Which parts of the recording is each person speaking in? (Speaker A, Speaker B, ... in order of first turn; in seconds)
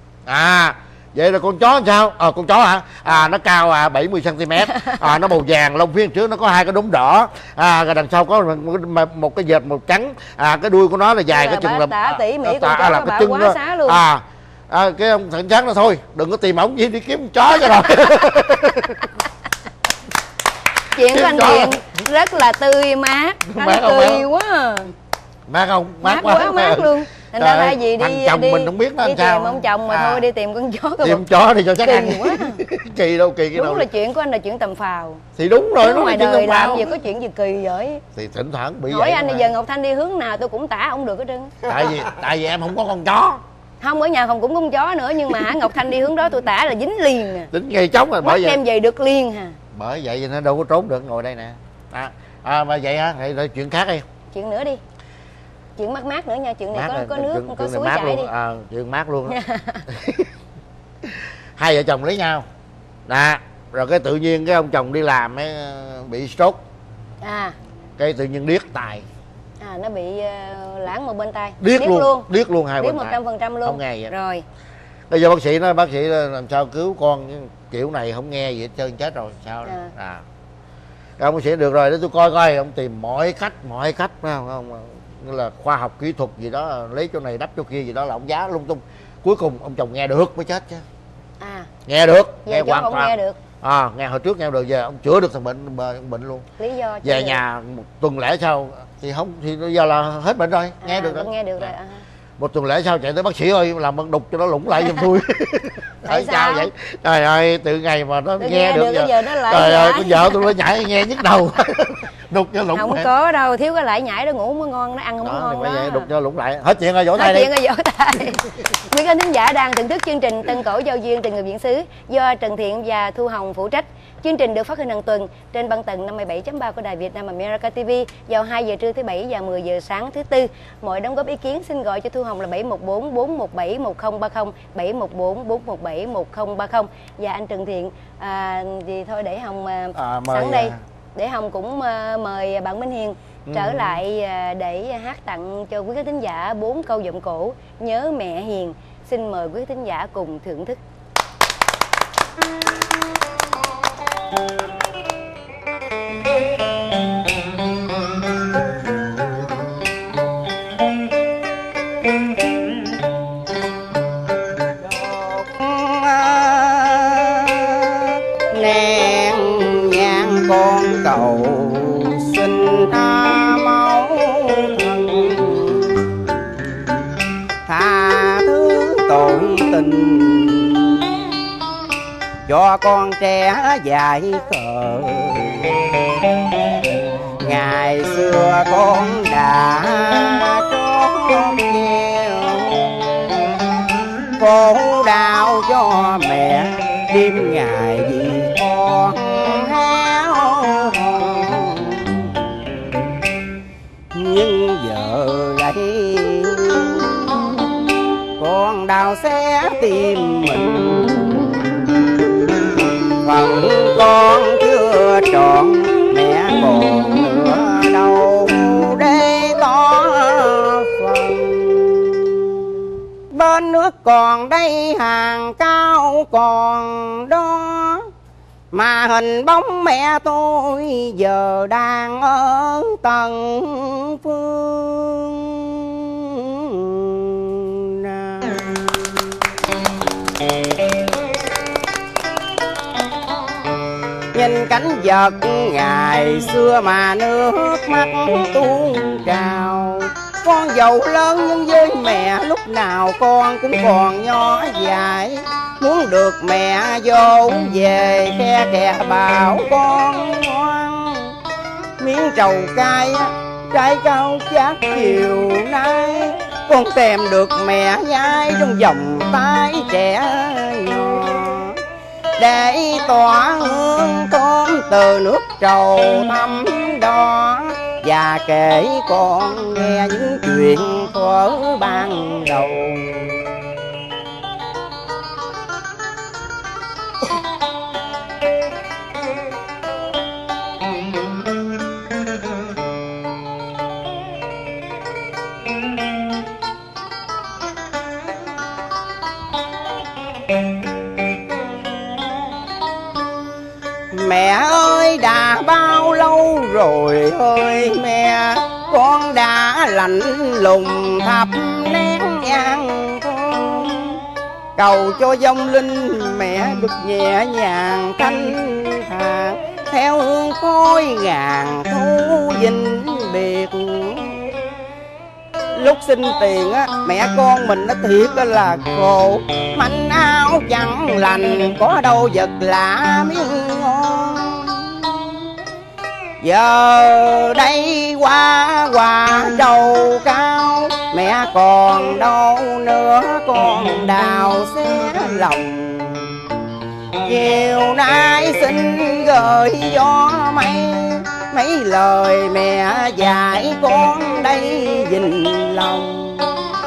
Speaker A: 0.3-19.1, 21.0-21.9, 23.5-24.3, 25.5-30.2, 31.0-33.9, 35.4-37.0, 38.1-39.5, 41.7-43.4, 47.5-48.6, 49.7-54.0, 56.7-59.4, 59.9-60.3, 61.0-62.5, 63.1-66.6, 68.0-69.0, 71.6-74.1, 75.1-80.2, 81.2-90.8, 91.9-96.5, 97.0-101.7, 102.4-113.1, 115.2-117.5, 139.9-140.8, 143.5-144.0
Speaker B: 4.7-5.1, 11.3-14.0, 20.9-24.9, 26.0-31.2, 31.8-32.6, 33.5-35.2, 35.8-38.0, 38.9-41.5, 43.8-47.5, 48.2-49.6, 54.3-54.8, 55.8-58.3, 59.3-59.9, 67.2-67.5, 69.6-72.3, 72.8-74.4, 79.6-79.9, 91.4-91.7, 92.5-93.4, 96.6-97.4, 100.8-102.0, 106.0-106.7, 108.4-110.5, 112.7-116.1, 117.2-150.8
Speaker C: 164.8-176.0, 177.7-181.1, 182.5-185.7, 187.4-193.5, 194.4-202.3, 204.1-207.4, 208.4-211.5, 213.1-222.6, 223.3-228.1, 228.7-238.8, 244.3-261.4, 262.0-271.8, 272.4-283.4, 304.1-314.2, 314.8-324.5, 325.8-335.1, 336.4-346.4, 347.2-356.5